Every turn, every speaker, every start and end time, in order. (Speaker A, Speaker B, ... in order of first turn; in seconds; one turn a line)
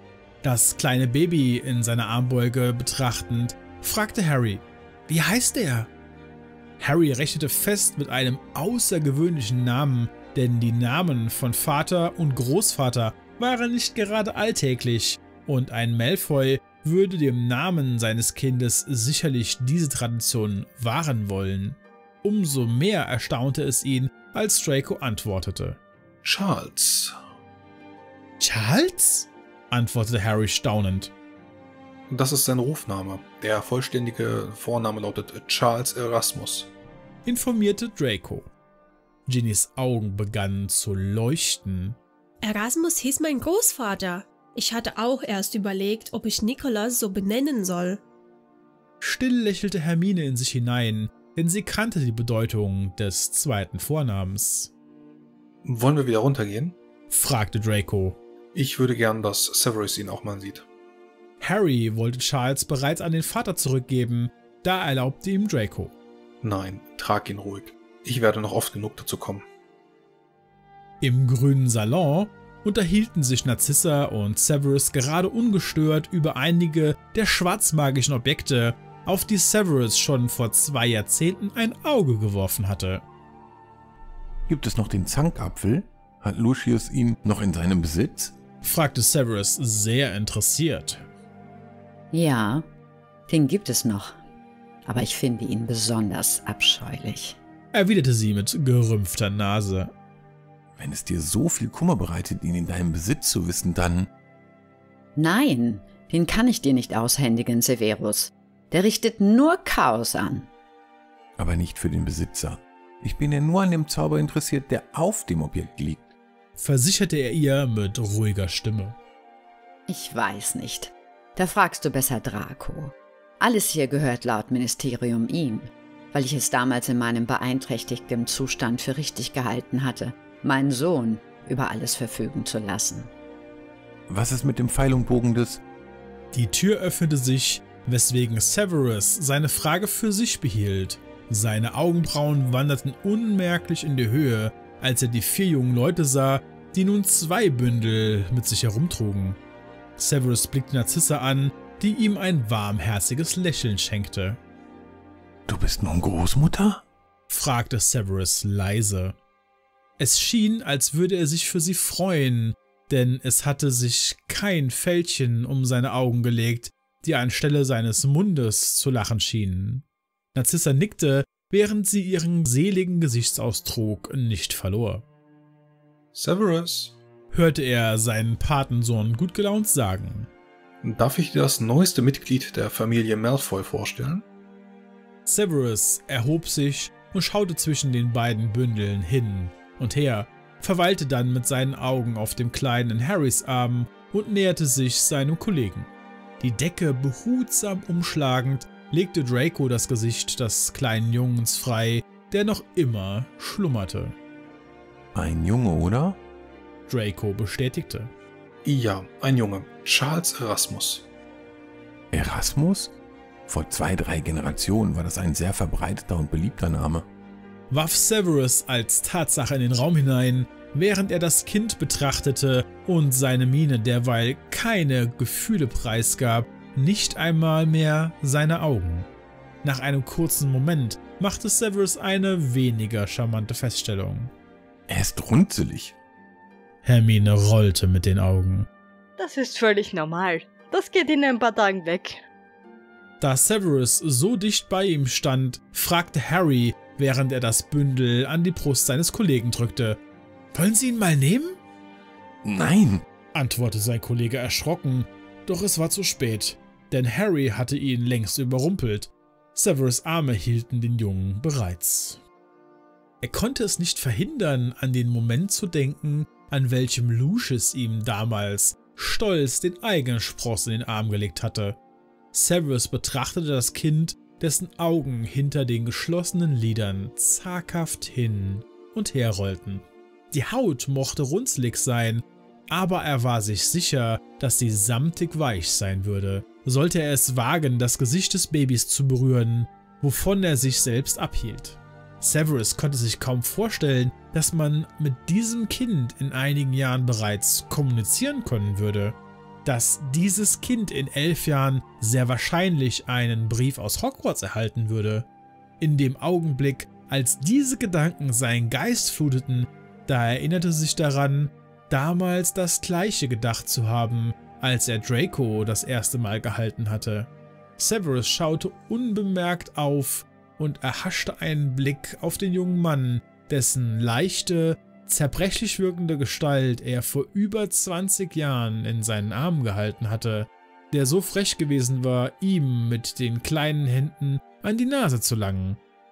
Speaker A: 0.4-5.9
Speaker A: 6.8-25.8
Speaker B: 26.2-27.1
Speaker A: 28.4-31.1
Speaker B: 32.1-36.7
Speaker A: 37.2-38.5
Speaker A: 39.3-42.0
Speaker C: 42.4-48.0
Speaker A: 49.0-54.7
Speaker B: 55.6-56.8
Speaker A: 57.1-58.2
Speaker B: 58.5-60.6
Speaker A: 61.4-65.9
Speaker B: 66.4-69.5
Speaker A: 71.0-83.0
Speaker D: 84.5-88.3
Speaker A: 88.6-91.1
Speaker E: 92.1-92.6
Speaker E: 93.3-94.2
Speaker E: 94.8-97.4
Speaker A: 97.7-99.9
Speaker D: 100.8-104.1
Speaker E: 105.2-110.5
Speaker D: 111.4-116.1
Speaker A: 116.6-119.0
Speaker E: 119.9-133.1
Speaker D: 134.1-135.6
Speaker A: 136.3-149.4
Speaker A: 150.0-154.4
Speaker D: 155.5-156.8
Speaker A: 157.3-159.2
Speaker A: 160.0-175.0
Speaker B: 176.1-176.9
Speaker A: 177.3-180.3
Speaker B: 180.8-184.2
Speaker A: 185.2-204.2
Speaker D: 205.1-206.2
Speaker A: 206.9-208.1
Speaker B: 208.6-211.1
Speaker D: 212.1-212.9
Speaker D: 213.5-217.1
Speaker A: 217.7-229.1
Speaker A: 229.6-234.3
Speaker D: 234.9-235.9
Speaker A: 236.8-238.7
Speaker F: 239.2-242.2
Speaker A: 243.2-250.0
Speaker A: 250.5-251.6
Speaker D: 252.4-253.0
Speaker A: 253.3-262.2
Speaker A: 263.2-271.8
Speaker A: 272.3-305.3
Speaker A: 305.8-335.8